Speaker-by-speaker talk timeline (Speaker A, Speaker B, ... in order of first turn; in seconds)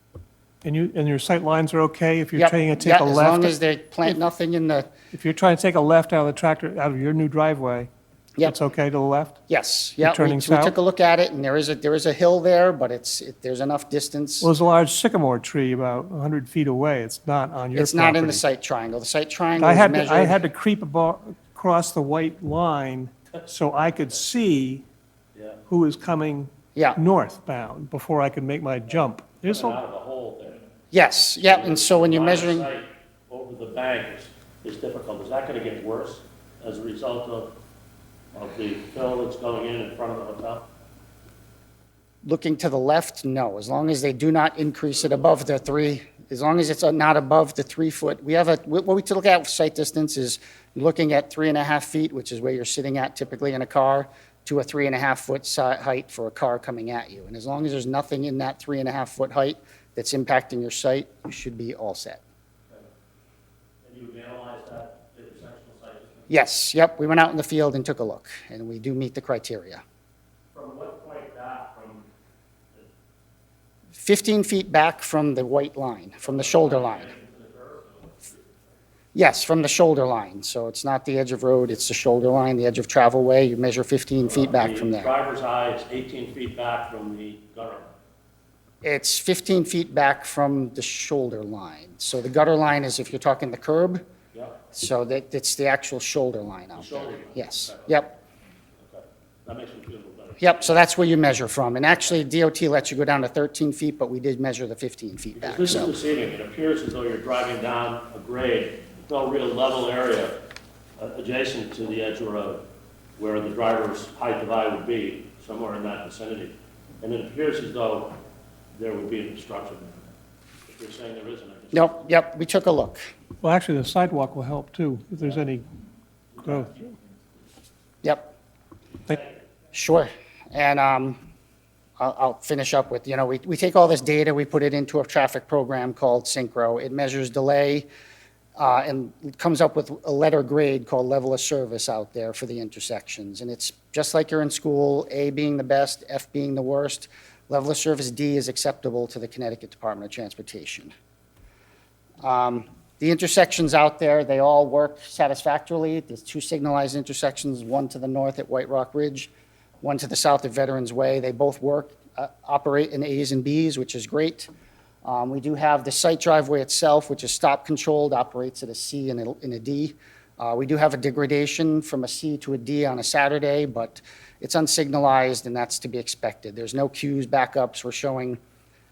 Speaker A: 0.6-3.5, 5.1-9.4, 10.0-10.8, 14.4-18.4, 19.6-24.8, 25.7-29.8, 123.4-125.7, 126.4-126.8
Speaker B: 2.4-4.9, 9.5-14.5, 17.7-20.4, 26.7-27.0, 30.9-32.7, 42.2-62.2, 66.3-69.8, 74.0-77.1, 79.1-85.1, 88.8-94.0, 94.7-98.1, 100.4-105.9, 121.7-123.0, 128.0-128.3, 129.7-131.2, 132.0-137.9, 138.6-150.9, 152.2-159.3, 159.8-164.5, 165.0-178.4
Speaker C: 25.3-25.6, 29.4-30.6, 31.4-37.5, 38.3-40.6, 63.8-66.3, 70.5-72.0, 76.2-78.4, 84.2-87.9, 94.3-94.6, 96.8-97.9, 98.8-100.8, 105.4-110.3, 111.0-112.6, 113.2-118.2, 118.7-120.1, 120.7-121.9